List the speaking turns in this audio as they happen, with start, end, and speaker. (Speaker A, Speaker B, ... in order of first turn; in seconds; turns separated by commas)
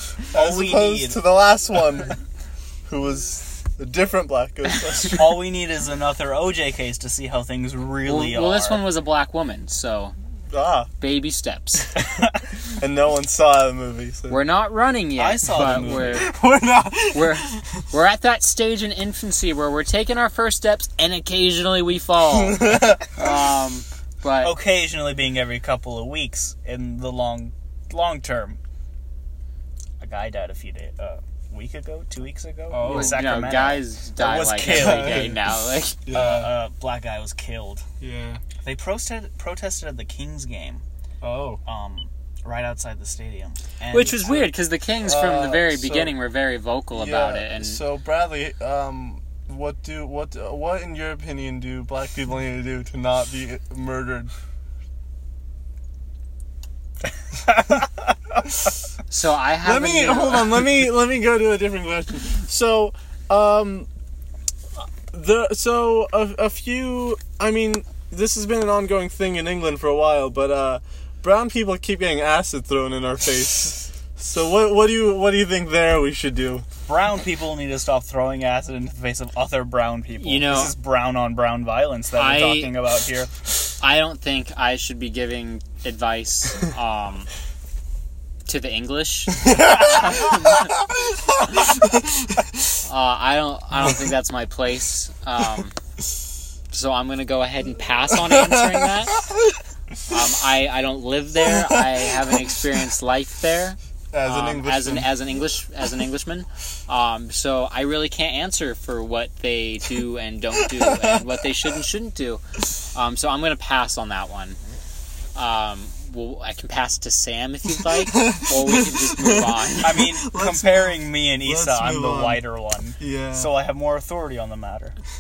Speaker A: 0.3-2.2, Speaker B: 0.3-1.2, Speaker A: 2.9-5.3, Speaker B: 5.1-8.8, Speaker C: 8.1-10.1, Speaker A: 10.5-10.9, Speaker C: 11.0-11.9, Speaker A: 12.8-14.4, Speaker C: 14.3-16.3, Speaker B: 15.2-16.3, Speaker A: 15.5-17.6, Speaker C: 17.1-24.5, Speaker A: 22.3-23.1, Speaker B: 24.4-28.6, Speaker B: 30.0-35.3, Speaker A: 32.7-33.2, Speaker C: 32.8-36.0, Speaker A: 34.6-35.4, Speaker A: 36.1-36.5, Speaker B: 36.1-37.9, Speaker A: 38.0-38.4, Speaker B: 38.6-40.8, Speaker A: 41.2-41.6, Speaker B: 41.6-44.5, Speaker C: 43.9-47.8, Speaker A: 45.0-46.1, Speaker A: 46.9-54.3, Speaker B: 57.5-57.8, Speaker C: 59.1-60.7, Speaker A: 59.6-63.9, Speaker A: 65.1-76.7, Speaker B: 76.9-83.3, Speaker C: 80.2-80.7, Speaker C: 82.2-82.7, Speaker C: 83.8-87.3, Speaker C: 88.5-90.7, Speaker A: 89.5-92.4, Speaker C: 92.8-95.8, Speaker C: 96.7-99.2, Speaker A: 98.2-99.5, Speaker C: 100.1-112.4, Speaker A: 101.5-102.1, Speaker A: 104.1-105.1, Speaker A: 110.7-111.2, Speaker C: 112.9-114.6, Speaker C: 115.3-120.0, Speaker A: 117.9-122.4, Speaker B: 119.8-125.0, Speaker A: 123.0-123.5